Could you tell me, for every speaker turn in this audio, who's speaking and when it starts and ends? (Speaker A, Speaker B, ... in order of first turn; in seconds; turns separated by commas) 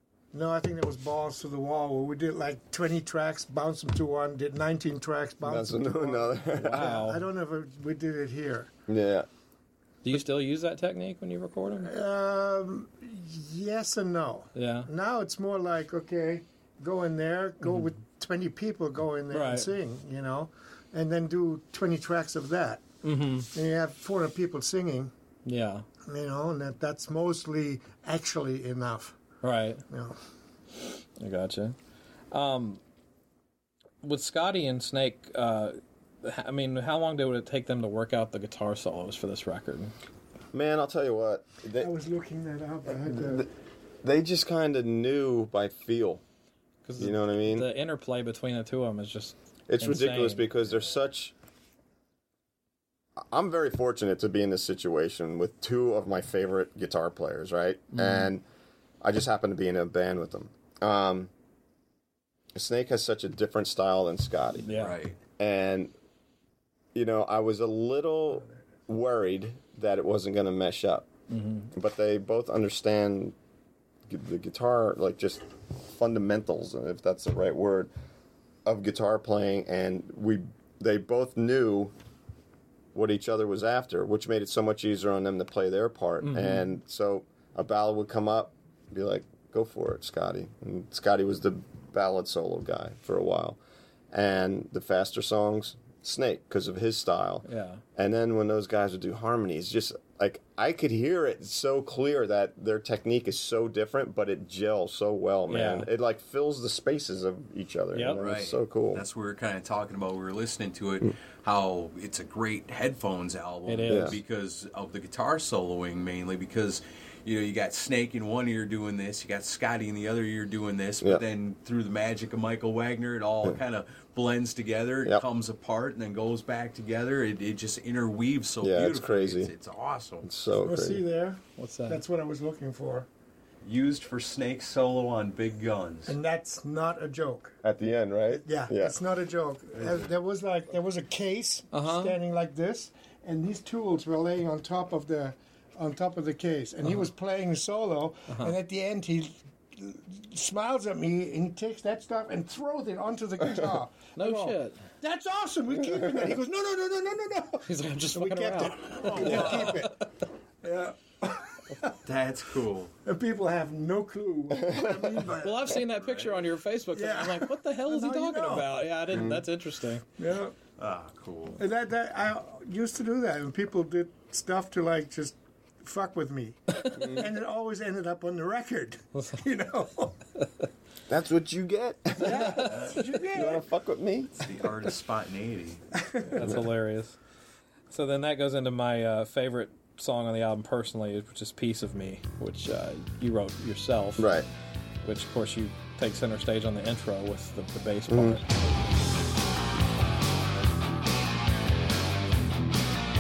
Speaker A: 0.3-8.7, Speaker B: 5.4-7.0, Speaker C: 6.7-7.2, Speaker B: 8.9-9.3, Speaker C: 10.0-11.9, Speaker A: 11.8-22.8, Speaker C: 14.6-14.9, Speaker C: 17.6-17.9, Speaker C: 19.3-19.7, Speaker C: 23.0-23.5, Speaker A: 23.5-25.1, Speaker C: 25.5-25.9, Speaker A: 26.1-29.2, Speaker C: 29.4-29.8, Speaker A: 29.9-30.2, Speaker C: 31.2-31.8, Speaker C: 32.3-32.8, Speaker C: 34.0-39.9, Speaker B: 40.5-41.9, Speaker A: 41.8-43.5, Speaker B: 42.9-43.5, Speaker B: 44.0-46.2, Speaker C: 46.9-50.5, Speaker B: 47.0-47.7, Speaker B: 49.7-51.3, Speaker B: 53.3-58.4, Speaker C: 57.9-58.3, Speaker B: 59.0-61.3, Speaker B: 62.5-64.8, Speaker C: 64.6-65.0, Speaker D: 64.7-65.2, Speaker B: 65.4-65.9, Speaker B: 67.0-71.1, Speaker C: 71.3-71.7, Speaker B: 71.7-73.4, Speaker B: 74.1-77.9, Speaker B: 78.7-81.9, Speaker B: 82.9-93.6, Speaker C: 86.2-86.7, Speaker B: 94.1-97.5, Speaker C: 97.5-97.8, Speaker B: 98.0-109.0, Speaker C: 105.5-105.9, Speaker C: 107.9-108.2, Speaker D: 108.2-130.3, Speaker C: 113.7-114.2, Speaker B: 113.9-114.2, Speaker B: 128.6-129.5, Speaker B: 130.2-131.0, Speaker A: 130.6-133.1, Speaker C: 131.6-132.0, Speaker D: 133.7-136.2, Speaker A: 136.1-137.6, Speaker B: 137.6-139.0, Speaker A: 138.4-160.1, Speaker D: 139.8-140.1, Speaker C: 141.7-142.2, Speaker C: 148.3-148.6, Speaker B: 153.4-153.7, Speaker C: 154.2-154.8, Speaker B: 155.8-156.4, Speaker C: 157.7-160.0, Speaker D: 159.1-159.6, Speaker A: 160.6-162.0, Speaker D: 162.1-162.9, Speaker A: 163.1-165.7, Speaker B: 164.5-165.2, Speaker C: 165.4-170.1, Speaker D: 165.9-166.4, Speaker A: 166.9-168.7, Speaker B: 169.1-169.5, Speaker A: 170.2-170.6, Speaker D: 170.8-171.6, Speaker A: 171.6-180.2, Speaker B: 176.9-177.3, Speaker B: 181.1-184.5, Speaker A: 182.2-183.6, Speaker D: 182.6-183.1, Speaker D: 184.4-185.8, Speaker A: 186.0-186.5, Speaker B: 186.3-186.7, Speaker C: 186.3-187.2, Speaker C: 187.9-194.3, Speaker B: 194.2-194.5, Speaker C: 195.0-198.4, Speaker B: 198.1-198.4